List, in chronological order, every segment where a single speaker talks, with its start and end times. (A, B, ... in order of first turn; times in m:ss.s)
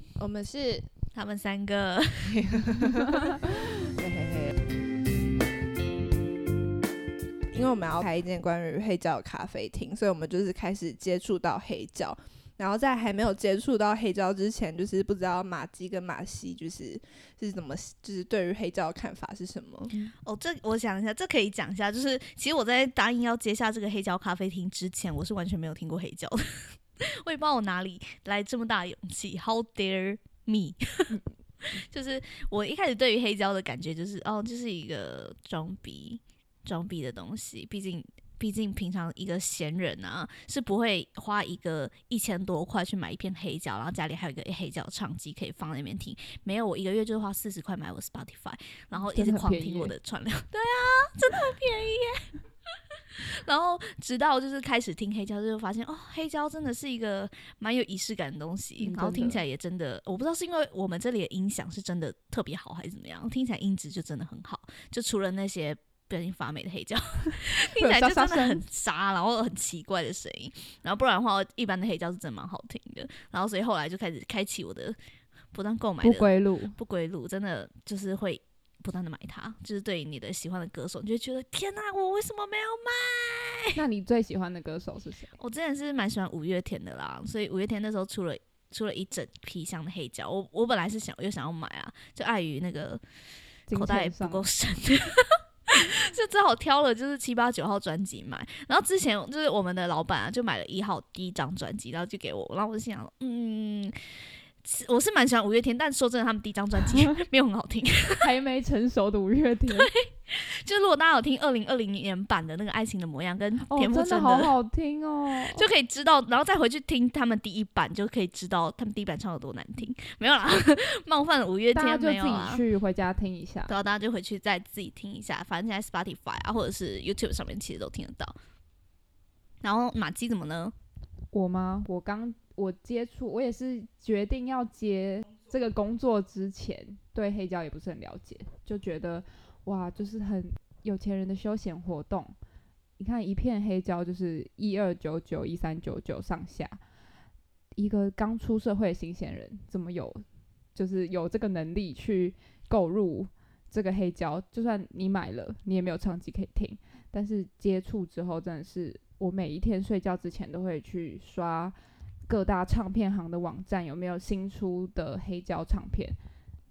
0:00.2-0:00.9 A
0:01.1-0:02.5 B
0:02.3-0:03.4 A
0:04.0-0:04.5 A
0:07.5-0:19.9 A
0:20.2-0:26.6 B
0:27.2-0:31.2 B
0:31.8-0:52.3 B
0:49.1-0:50.0 C
0:53.2-1:15.0 B
0:58.8-0:59.4 C
1:07.8-1:08.6 C
1:15.5-1:23.8 B
1:16.0-1:16.8 C
1:23.8-1:25.3 C
1:25.4-1:33.0 B
1:33.7-1:34.5 C
1:33.7-1:43.9 B
1:44.6-1:48.3 B
1:48.2-1:49.9 C
1:49.7-1:54.5 B
1:53.7-1:55.6 C
1:55.4-2:02.6 B
2:01.7-2:03.7 C
2:03.7-2:08.3 B
2:09.6-2:10.7 B
2:11.3-2:22.4 C
2:23.0-2:26.8 C
2:27.8-2:41.8 C
2:42.3-2:46.2 C